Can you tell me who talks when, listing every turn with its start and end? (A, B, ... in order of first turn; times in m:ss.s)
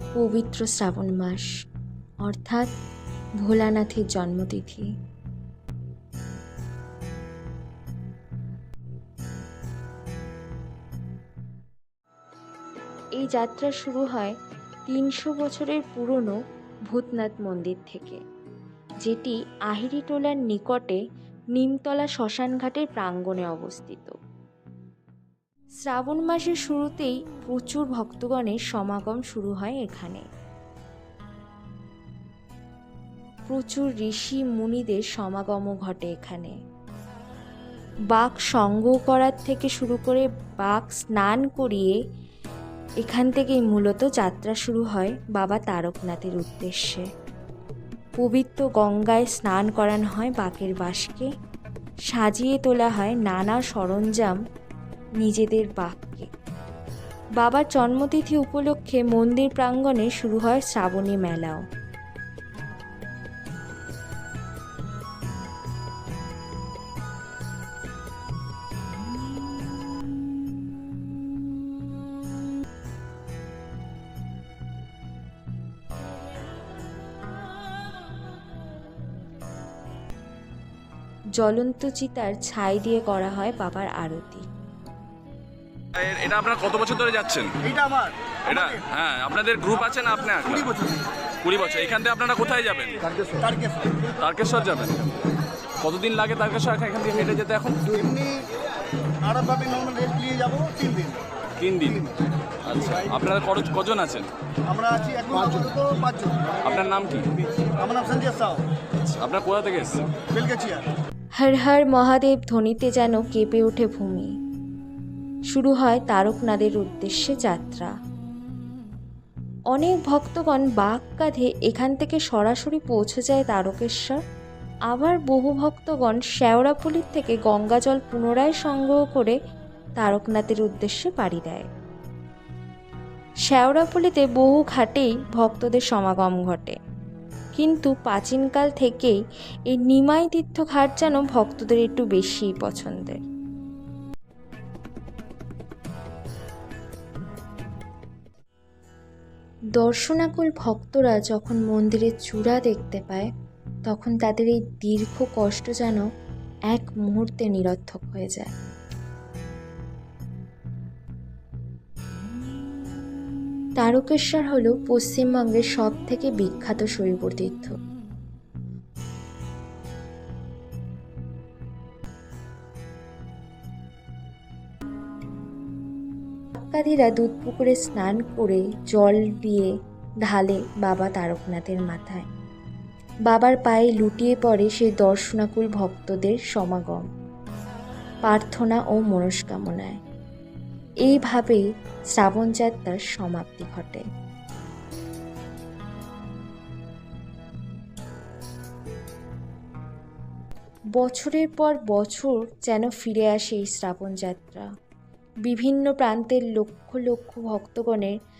0:00.1-0:01.5 A
0:02.2-0:02.7 A
0:03.4-0:04.9 A
0:13.2-0:14.4 A
0:14.9-0:16.4 A
0:16.9-0:18.2 A
0:19.0-0:21.0 A
0:21.5-0:24.2 A
0:25.8-0:30.2 A
0:33.5-0:36.6 A
0:38.1-0:42.0 A
0:43.0-0:47.1 A
0:48.2-0:51.3 A
0:52.1-0:54.4 A
0:55.2-0:56.3 A
0:57.4-1:01.6 A
1:21.4-1:24.4 A
1:25.9-1:27.6 B
1:27.6-1:28.9 C
1:28.5-1:30.7 B
1:30.6-1:31.0 C
1:31.4-1:33.0 B
1:33.2-1:34.1 C
1:34.2-1:35.2 B
1:35.8-1:37.9 B
1:37.9-1:38.4 C
1:39.2-1:41.2 C
1:41.6-1:42.1 B
1:42.6-1:44.3 B
1:44.6-1:46.6 C
1:46.6-1:47.3 B
1:47.6-1:48.6 C
1:49.0-1:50.1 B
1:50.2-1:50.8 C
1:51.4-1:54.3 A
1:55.5-1:57.9 A
1:59.7-2:04.2 A
2:04.9-2:09.4 A
2:10.0-2:11.7 A
2:13.5-2:16.8 A
2:17.5-2:19.2 A
2:19.7-2:23.2 A
2:29.8-2:33.3 A
2:33.8-2:36.0 A
2:36.7-2:38.5 A
2:43.8-2:47.8 A
2:56.6-2:59.7 A
3:00.2-3:02.3 A
3:03.3-3:07.0 A
3:08.2-3:10.0 A
3:11.0-3:14.0 A
3:20.9-3:24.7 A
3:25.4-3:28.2 A